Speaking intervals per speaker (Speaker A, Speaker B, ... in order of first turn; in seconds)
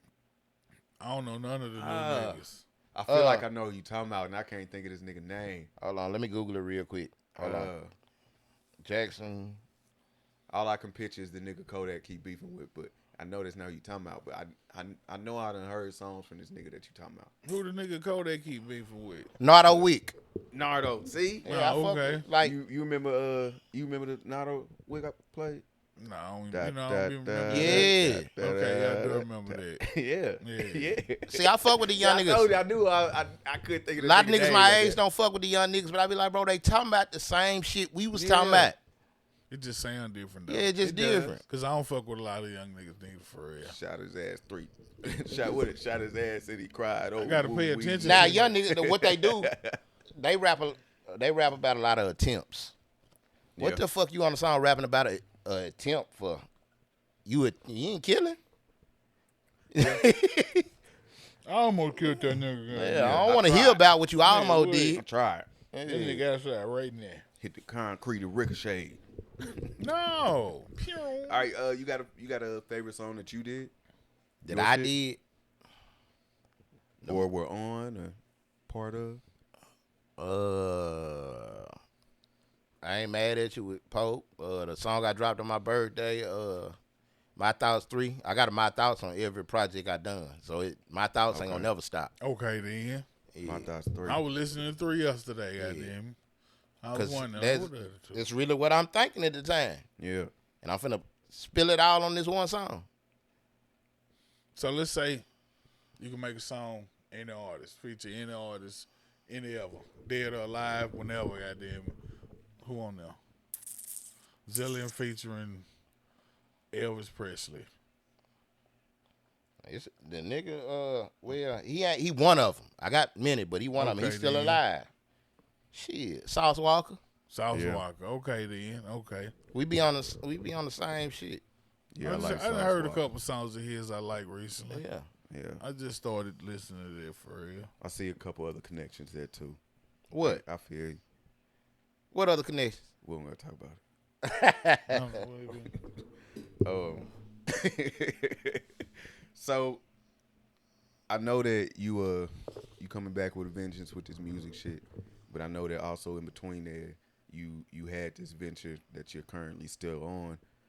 Speaker A: 1.0-2.6, 17.4-19.3, 21.4-22.2, 26.0-29.8, 30.4-31.0, 39.5-40.8, 41.4-43.7, 47.2-48.5, 61.4-63.3, 64.2-65.0, 65.8-67.2, 69.8-71.4, 92.2-93.0, 94.0-96.2, 96.8-98.2, 104.5-105.2, 106.0-112.0, 112.6-113.2, 114.5-115.7, 116.7-117.7, 123.8-124.6, 127.3-129.3, 132.0-134.8, 135.6-137.7, 144.9-145.7
Speaker B: 1.7-2.4, 2.9-5.7, 7.4-7.9, 10.5-17.3, 20.5-21.5, 22.4-25.6, 26.5-35.0, 38.1-38.7, 40.8-41.4, 43.6-49.8, 53.6-53.8, 59.8-60.1, 62.9-63.8, 64.7-65.5, 67.4-69.7, 71.3-73.7, 74.4-74.9, 77.0-78.2, 78.7-79.2, 91.3-91.7, 93.4-94.2, 100.0-100.3, 127.5-127.8, 131.9-133.1, 135.3-135.6, 137.8-139.6, 140.2-141.0, 143.0-143.8, 146.6-148.6, 149.3-149.8, 151.1-160.4
Speaker C: 3.1-3.5, 5.8-7.7, 8.8-9.6, 19.4-20.1, 21.4-22.5, 27.5-28.3, 31.3-32.6, 34.0-38.8, 40.5-41.4, 48.0-49.5, 50.1-52.7, 53.6-56.4, 57.2-58.4, 59.7-60.6, 62.7-65.0, 65.7-66.2, 74.4-75.2, 80.2-81.7, 82.8-86.8, 87.3-92.1, 93.3-93.7, 95.6-95.9, 96.9-99.8, 100.6-102.8, 119.6-124.9, 125.7-127.0, 129.5-131.4, 134.7-135.1, 140.1-140.4, 142.1-142.8, 144.2-145.0